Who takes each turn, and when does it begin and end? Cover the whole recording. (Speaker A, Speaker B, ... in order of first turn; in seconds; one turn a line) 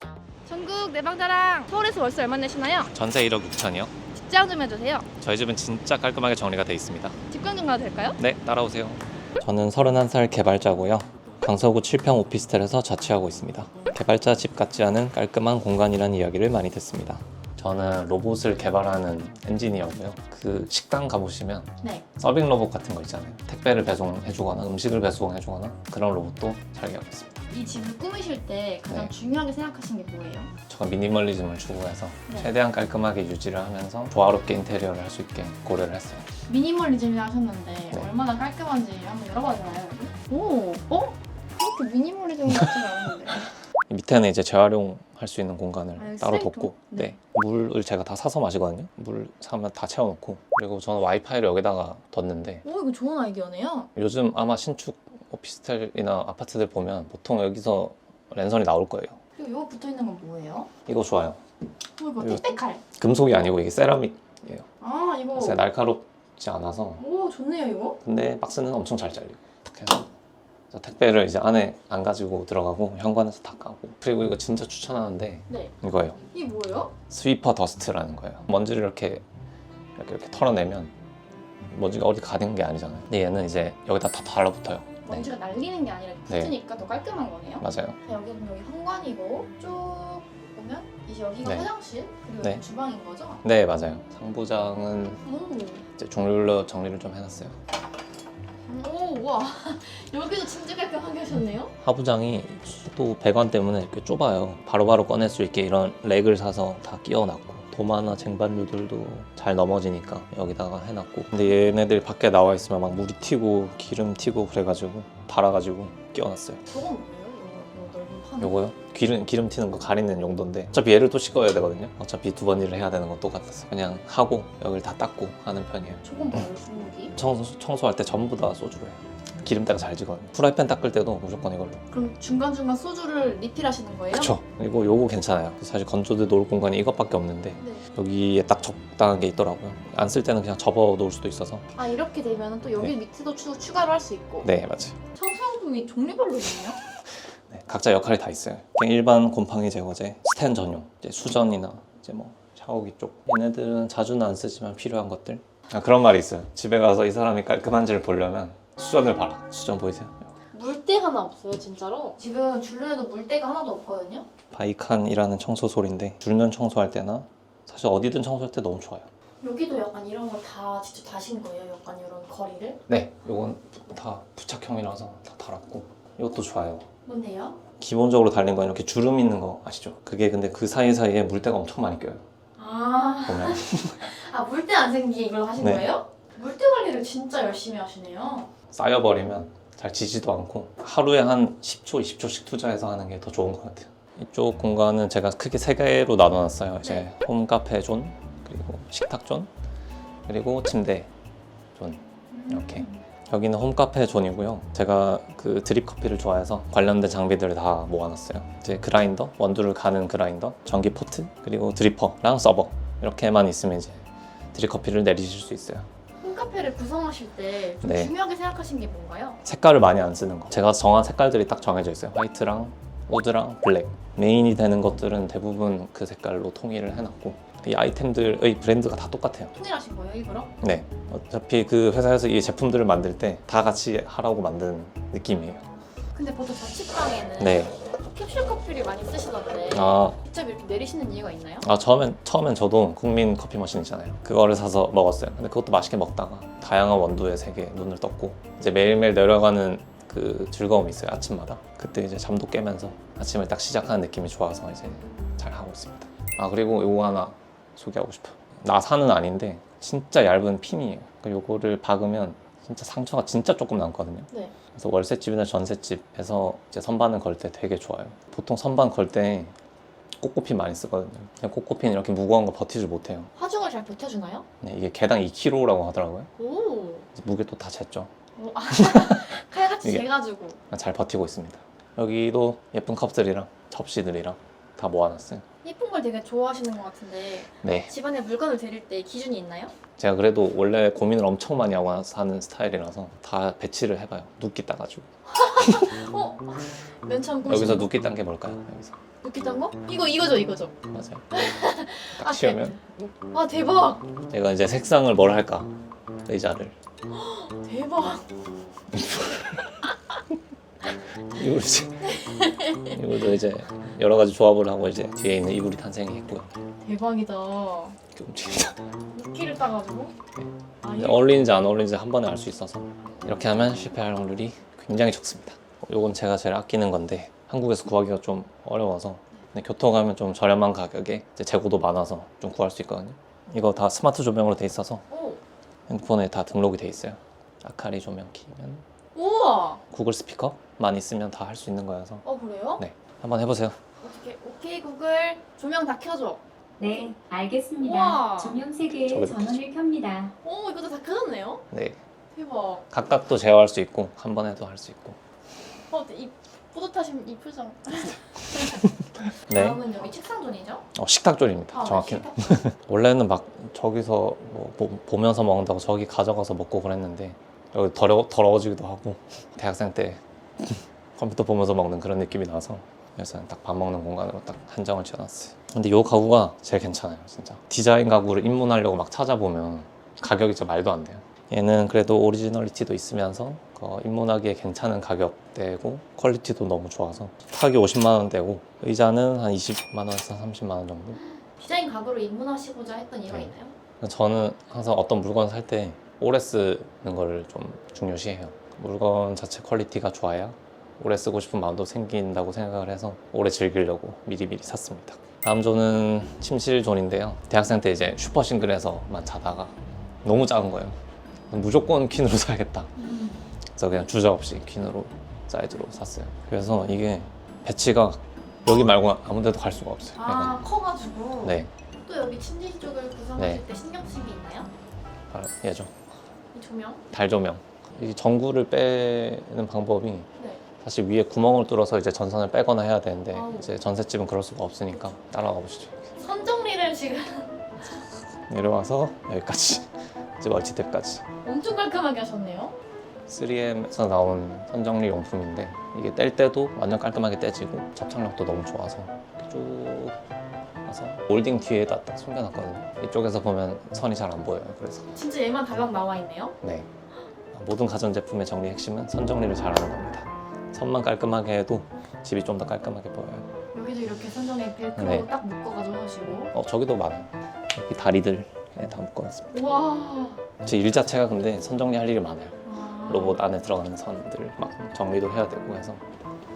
Speaker A: 0.5-2.9
Speaker B: 2.9-3.9
Speaker A: 4.1-5.1
Speaker B: 5.2-7.2
Speaker A: 7.3-8.2
Speaker B: 8.2-27.4
Speaker A: 27.5-30.6
Speaker B: 30.7-36.3
Speaker A: 36.5-43.4
Speaker B: 43.9-52.6
Speaker A: 46.0-47.2
Speaker A: 52.6-53.9
Speaker B: 54.0-59.2
Speaker A: 59.4-60.7
Speaker B: 60.9-61.4
Speaker A: 62.0-62.8
Speaker B: 62.2-64.7
Speaker A: 64.8-65.6
Speaker B: 65.3-67.0
Speaker A: 67.0-68.0
Speaker B: 68.0-70.1
Speaker B: 70.7-76.2
Speaker A: 76.3-76.9
Speaker B: 77.1-79.2
Speaker B: 80.0-80.9
Speaker B: 81.7-85.3
Speaker A: 85.0-93.4
Speaker B: 86.3-86.5
Speaker B: 87.6-88.0
Speaker B: 93.4-95.2
Speaker A: 95.2-95.8
Speaker B: 96.0-97.6
Speaker A: 98.7-101.7
Speaker B: 101.8-116.6
Speaker A: 116.7-118.6
Speaker B: 118.4-126.5
Speaker A: 126.0-127.2
Speaker B: 127.2-131.8
Speaker A: 131.9-134.4
Speaker B: 134.1-141.7
Speaker A: 137.6-137.8
Speaker A: 141.8-144.5
Speaker B: 144.4-145.0
Speaker A: 145.1-146.8
Speaker B: 147.5-160.3
Speaker A: 160.5-164.3
Speaker B: 164.5-169.1
Speaker A: 169.4-172.8
Speaker B: 172.9-176.9
Speaker A: 177.1-177.6
Speaker B: 177.8-182.2
Speaker A: 182.6-188.5
Speaker B: 183.3-184.1
Speaker B: 185.6-185.9
Speaker B: 188.7-199.5
Speaker A: 196.8-197.1
Speaker B: 200.3-201.1
Speaker B: 201.8-215.9
Speaker A: 202.3-203.0
Speaker A: 216.2-219.4
Speaker B: 217.8-218.1
Speaker B: 219.4-229.5
Speaker A: 229.5-230.5
Speaker B: 230.6-235.7
Speaker A: 236.1-241.7
Speaker B: 237.4-237.8
Speaker B: 239.7-240.2
Speaker B: 241.6-269.6
Speaker B: 270.2-273.3
Speaker A: 273.4-274.5
Speaker B: 274.6-276.3
Speaker A: 276.4-277.1
Speaker B: 277.1-278.1
Speaker A: 278.4-280.6
Speaker B: 278.8-280.1
Speaker B: 280.7-285.4
Speaker A: 285.6-289.8
Speaker B: 287.6-287.9
Speaker B: 290.0-295.1
Speaker A: 295.3-297.9
Speaker B: 297.5-298.9
Speaker A: 299.2-300.8
Speaker B: 300.9-301.4
Speaker A: 301.3-302.8
Speaker B: 302.1-302.8
Speaker A: 303.3-304.1
Speaker B: 304.3-305.7
Speaker B: 306.2-306.8
Speaker A: 307.1-308.3
Speaker B: 308.9-309.7
Speaker B: 311.3-312.2
Speaker A: 312.1-313.0
Speaker B: 312.8-316.5
Speaker A: 316.8-318.0
Speaker B: 318.1-318.8
Speaker A: 319.1-320.1
Speaker B: 320.4-335.0
Speaker A: 320.8-321.3
Speaker A: 335.1-335.4
Speaker B: 335.9-338.9
Speaker A: 339.1-339.8
Speaker B: 339.9-342.2
Speaker A: 342.2-342.8
Speaker B: 342.8-343.8
Speaker A: 344.0-346.4
Speaker C: 346.8-350.4
Speaker A: 347.8-348.6
Speaker B: 349.0-349.6
Speaker A: 350.4-351.6
Speaker B: 351.7-352.0
Speaker A: 352.3-352.9
Speaker B: 352.9-355.2
Speaker A: 355.9-358.9
Speaker B: 359.5-359.8
Speaker A: 359.5-360.9
Speaker B: 360.9-391.2
Speaker A: 361.7-362.6
Speaker A: 391.6-393.8
Speaker B: 393.3-411.0
Speaker B: 411.5-412.9
Speaker A: 413.0-413.4
Speaker B: 413.8-420.6
Speaker A: 420.2-424.7
Speaker B: 421.4-421.7
Speaker B: 423.4-423.6
Speaker B: 425.3-425.9
Speaker A: 426.5-427.0
Speaker B: 427.1-430.3
Speaker A: 430.4-430.6
Speaker B: 430.8-436.1
Speaker A: 433.3-433.7
Speaker A: 436.2-437.6
Speaker B: 438.5-441.2
Speaker A: 441.4-442.8
Speaker B: 443.3-450.2
Speaker B: 450.9-455.1
Speaker A: 455.1-456.6
Speaker B: 456.6-456.9
Speaker B: 457.5-463.5
Speaker A: 463.7-466.5
Speaker B: 465.0-465.3
Speaker B: 466.5-469.7
Speaker A: 469.5-470.4
Speaker B: 470.6-476.1
Speaker A: 472.6-473.4